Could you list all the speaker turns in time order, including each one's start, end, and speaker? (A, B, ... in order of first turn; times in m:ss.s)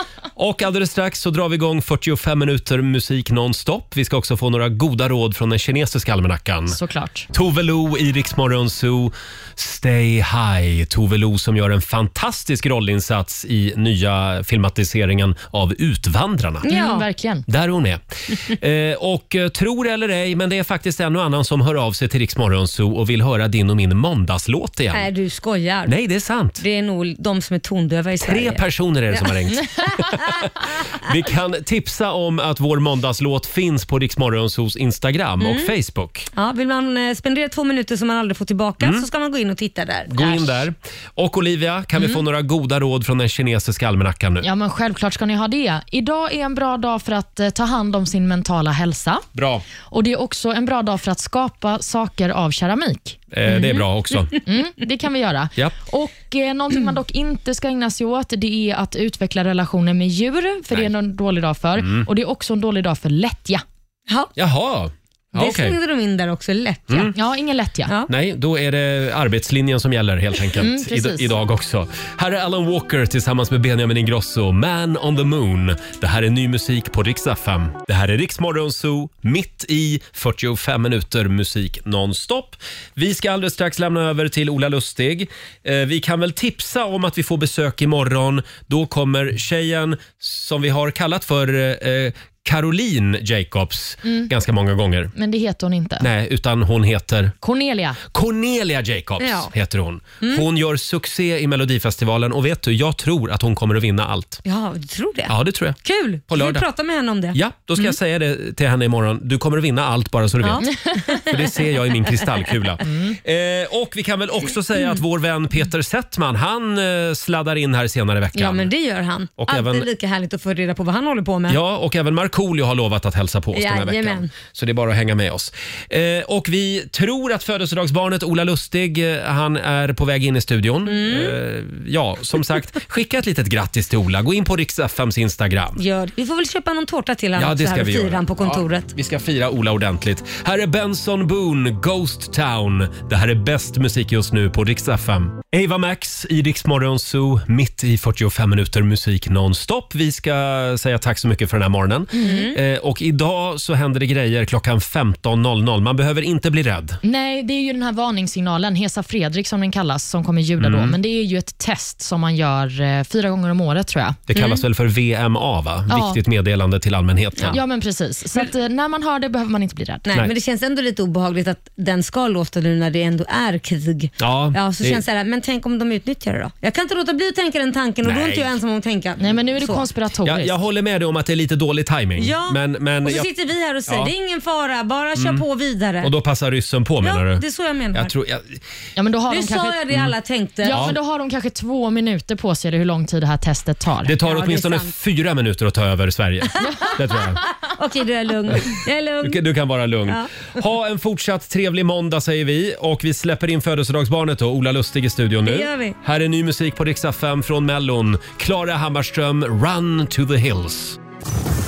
0:00.4-0:06.8 A
0:06.7-0:07.3 B
0:07.3-0:16.7 A
0:16.6-0:17.1 C
0:16.7-0:17.4 B
0:17.5-0:25.1 A
0:24.9-0:26.0 C
0:25.9-0:26.6 A
0:26.6-0:29.3 C
0:28.2-0:36.3 A
0:29.9-0:30.5 C
0:35.4-0:35.7 C
0:36.3-0:40.6 C
0:38.8-0:39.1 A
0:40.1-0:44.5 A
0:44.4-0:49.2 B
0:49.4-0:49.6 A
0:49.9-0:53.2 B
0:53.3-0:54.4 A
0:54.5-1:03.6 B
1:01.8-1:02.1 A
1:04.4-1:05.8 A
1:05.4-1:07.2 C
1:07.2-1:07.9 B
1:08.1-1:35.1 A
1:10.6-1:11.3 B
1:34.0-1:34.3 B
1:35.2-1:36.1 B
1:36.0-1:37.3 A
1:37.4-1:38.0 B
1:38.1-1:44.4 A
1:39.2-1:39.5 C
1:40.2-1:40.5 C
1:44.4-1:48.0 C
1:45.3-1:46.7 A
1:47.3-1:58.7 A
1:50.4-1:51.5 C
1:52.9-1:53.2 B
1:58.4-2:01.6 C
1:59.4-1:59.9 A
2:01.5-2:15.8 A
2:03.6-2:04.3 C
2:10.9-2:11.4 C
2:15.8-2:18.9 C
2:17.4-2:37.0 A
2:32.1-2:32.5 B
2:32.2-2:32.6 C
2:37.0-2:44.2 B
2:40.6-2:41.0 A
2:44.3-2:47.6 A
2:44.4-2:44.6 C
2:45.9-2:46.2 B
2:47.5-2:50.0 B
2:50.1-2:59.9 C
2:54.2-2:55.0 A
2:58.0-2:58.6 A
2:59.2-3:00.6 B
3:00.2-3:03.3 A
3:02.2-3:06.1 C
3:03.9-3:04.1 A
3:05.2-3:05.4 A
3:06.0-3:07.4 A
3:07.0-3:08.1 C
3:07.9-3:08.6 A
3:09.0-3:09.8 B
3:09.3-3:10.8 C
3:10.6-3:14.1 B
3:10.7-3:11.0 A
3:14.0-3:17.4 A
3:14.2-3:14.9 C
3:16.6-3:19.4 C
3:19.2-3:31.0 A
3:20.1-3:20.5 C
3:25.4-3:26.0 C